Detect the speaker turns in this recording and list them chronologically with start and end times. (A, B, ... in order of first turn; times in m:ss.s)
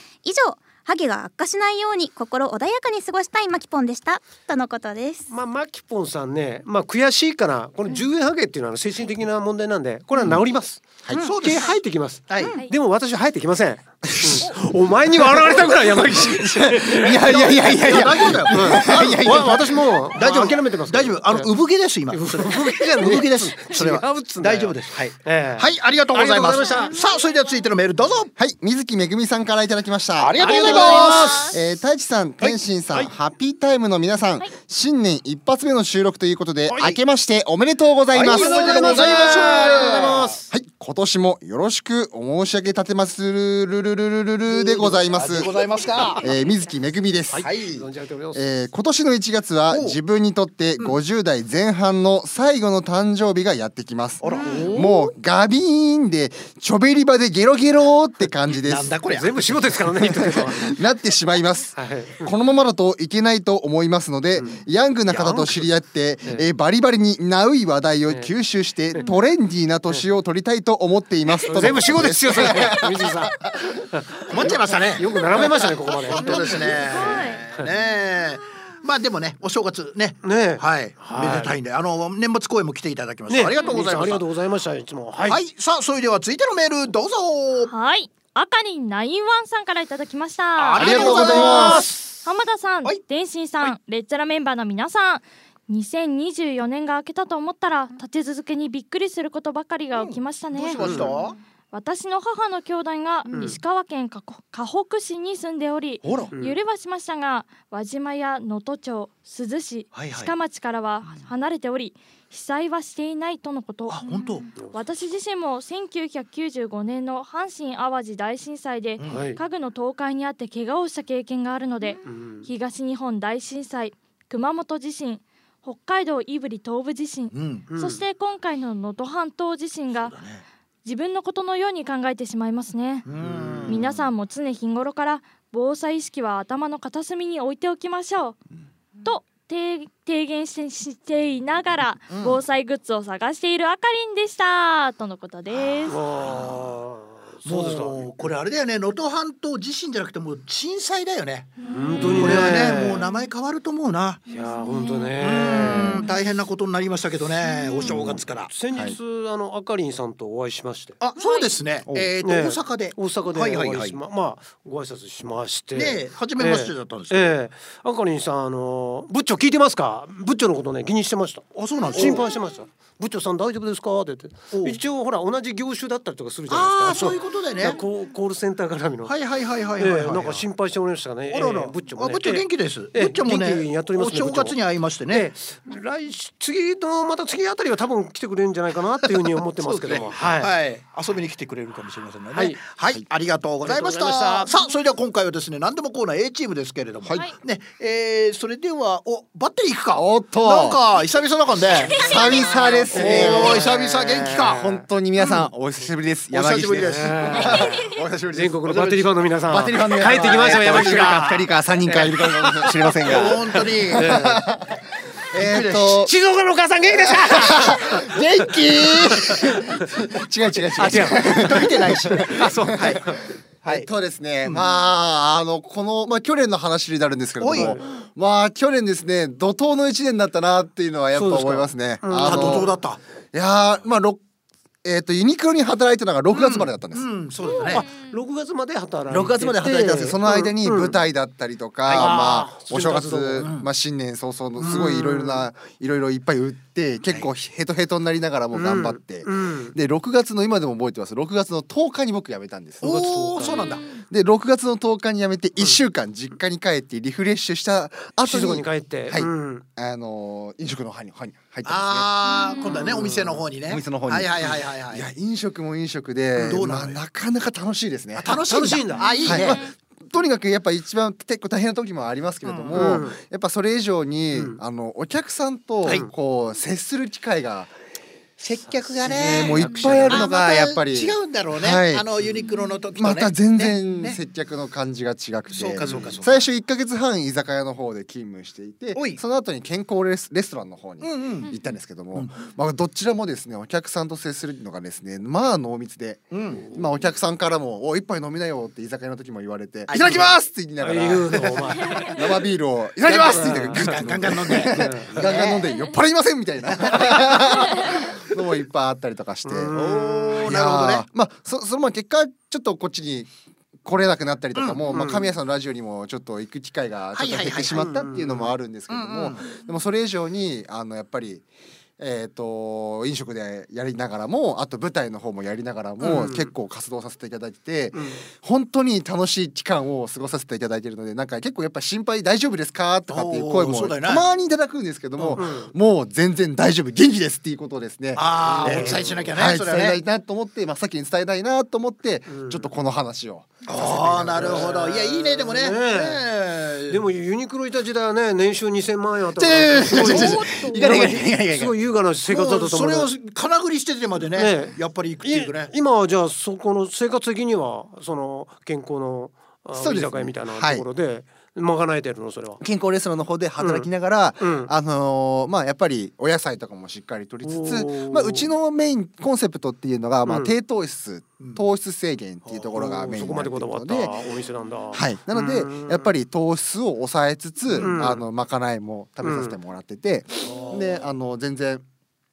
0:00.2-0:05.3 A
0:05.3-0:21.5 B
0:11.1-0:11.7 A
0:11.2-0:11.8 C
0:12.3-0:12.6 C
0:12.4-0:12.6 A
0:16.3-0:19.7 D
0:17.4-0:28.3 C
0:22.1-0:27.0 B
0:26.6-0:27.5 A
0:28.4-0:45.6 D
0:30.2-0:31.5 C
0:30.4-0:31.6 B
0:30.5-0:31.4 E
0:36.7-0:37.0 B
0:38.1-0:40.4 C
0:38.3-0:40.5 B
0:44.5-0:46.3 C
0:46.1-0:47.5 D
0:47.3-0:48.4 B
0:47.4-0:47.8 C
0:48.3-0:58.9 D
0:49.7-0:50.0 C
0:54.2-0:55.1 C
0:54.2-0:54.8 A
0:58.6-0:59.8 C
0:59.1-1:00.8 B
1:00.0-1:13.6 D
1:01.8-1:02.4 B
1:04.4-1:05.7 B
1:11.4-1:13.4 B
1:13.9-1:16.8 B
1:14.3-1:24.3 C
1:16.2-1:17.5 A
1:20.2-1:21.5 B
1:23.3-1:25.4 B
1:25.2-1:27.7 C
1:27.7-1:41.1 E
1:30.6-1:32.0 C
1:30.7-1:32.0 B
1:30.8-1:31.9 D
1:40.0-1:41.4 C
1:40.8-1:41.1 B
1:41.7-1:54.1 E
1:46.0-1:46.3 C
1:46.3-1:46.6 B
1:49.9-1:50.3 C
1:53.9-1:54.5 C
1:54.6-1:54.8 B
1:54.6-2:10.2 E
1:59.0-1:59.3 C
1:59.0-1:59.4 B
2:02.0-2:02.5 B
2:07.3-2:07.7 C
2:07.7-2:08.0 B
2:10.0-2:10.4 C
2:10.8-2:13.1 E
2:13.0-2:14.0 C
2:13.2-2:14.0 B
2:13.7-2:18.4 E
2:19.0-2:26.3 E
2:22.1-2:22.4 C
2:25.8-2:26.6 C
2:25.9-2:28.1 B
2:27.4-2:31.5 C
2:31.7-2:33.1 B
2:32.1-2:34.2 C
2:34.3-2:36.0 B
2:34.7-2:35.0 E
2:35.2-2:38.5 C
2:35.6-2:36.1 D
2:37.8-2:39.0 D
2:38.5-2:41.0 B
2:41.0-2:44.0 C
2:41.2-2:41.5 E
2:41.9-2:42.1 D
2:42.2-2:59.2 B
2:45.7-2:47.4 C
2:51.5-2:52.3 C
2:54.5-2:54.8 C
2:56.5-2:57.8 C
2:59.0-3:00.5 C
2:59.8-3:04.6 B
3:01.3-3:05.3 C
3:05.1-3:10.5 B
3:09.2-3:22.2 C
3:12.3-3:12.6 B
3:13.6-3:14.6 B
3:17.0-3:17.3 D
3:20.0-3:20.8 D
3:21.9-3:23.8 D
3:22.0-3:22.3 E
3:22.1-3:22.7 A
3:22.8-3:24.7 C
3:22.9-3:24.8 B
3:24.4-3:34.8 D
3:26.3-3:27.7 C
3:26.8-3:34.4 B
3:29.7-3:31.5 C
3:33.0-3:34.3 C
3:35.3-3:36.1 D
3:35.4-3:36.0 C
3:36.0-3:39.9 B
3:37.0-3:43.0 D
3:40.8-3:43.2 B
3:40.8-3:43.0 C
3:43.6-3:52.7 D
3:47.4-3:47.8 C
3:47.6-3:47.9 B
3:51.1-3:52.7 B
3:52.2-3:53.0 C
3:53.3-3:54.2 D
3:54.8-3:57.1 D
3:56.3-3:57.9 C
3:57.4-3:58.2 E
3:57.5-4:01.0 B
3:59.1-4:13.0 D
4:01.8-4:02.2 C
4:02.0-4:03.5 B
4:03.4-4:03.7 C
4:04.6-4:05.4 B
4:08.5-4:09.8 B
4:12.8-4:13.9 C
4:12.8-4:13.8 B
4:13.5-4:14.0 E
4:14.1-4:22.1 D
4:18.2-4:19.6 B
4:21.6-4:25.1 C
4:22.7-4:23.4 B
4:23.7-4:28.4 D
4:26.4-4:27.0 C
4:28.2-4:29.6 C
4:28.5-4:29.3 B
4:29.2-4:37.7 D
4:32.4-4:33.0 C
4:32.7-4:33.2 B
4:34.3-4:34.6 B
4:38.4-4:44.2 C
4:39.0-4:40.3 B
4:39.0-4:42.1 D
4:43.0-5:09.8 D
4:45.5-4:46.4 C
4:45.8-4:46.2 B
4:49.0-4:49.2 C
4:51.0-4:51.5 C
4:56.3-4:56.7 C
4:59.9-5:00.4 C
5:00.8-5:02.2 B
5:03.0-5:05.8 C
5:03.3-5:05.1 B
5:06.7-5:07.9 C
5:09.4-5:10.5 B
5:09.7-5:11.0 C
5:10.4-5:13.3 D
5:13.8-5:21.4 D
5:14.6-5:14.9 C
5:14.9-5:15.3 B
5:17.1-5:18.1 C
5:17.8-5:18.5 B
5:18.9-5:19.6 C
5:22.0-5:44.7 D
5:26.0-5:26.5 B
5:27.9-5:28.2 B
5:33.1-5:34.2 C
5:35.2-5:35.4 C
5:35.4-5:35.7 B
5:38.2-5:40.0 C
5:38.4-5:39.3 B
5:42.3-5:42.7 B
5:43.7-5:47.0 C
5:44.3-5:46.2 B
5:46.9-5:53.1 B
5:49.4-5:51.8 C
5:50.1-5:51.2 D
5:52.3-5:55.7 C
5:54.4-6:02.6 B
5:59.8-6:00.9 D
6:02.6-6:14.1 D
6:03.6-6:03.9 B
6:04.4-6:04.7 B
6:07.4-6:08.5 B
6:10.2-6:10.5 B
6:11.4-6:11.6 C
6:12.5-6:12.7 C
6:12.7-6:16.1 B
6:14.9-6:21.8 D
6:17.7-6:18.0 C
6:17.8-6:18.2 B
6:19.2-6:19.6 B
6:20.4-6:21.0 C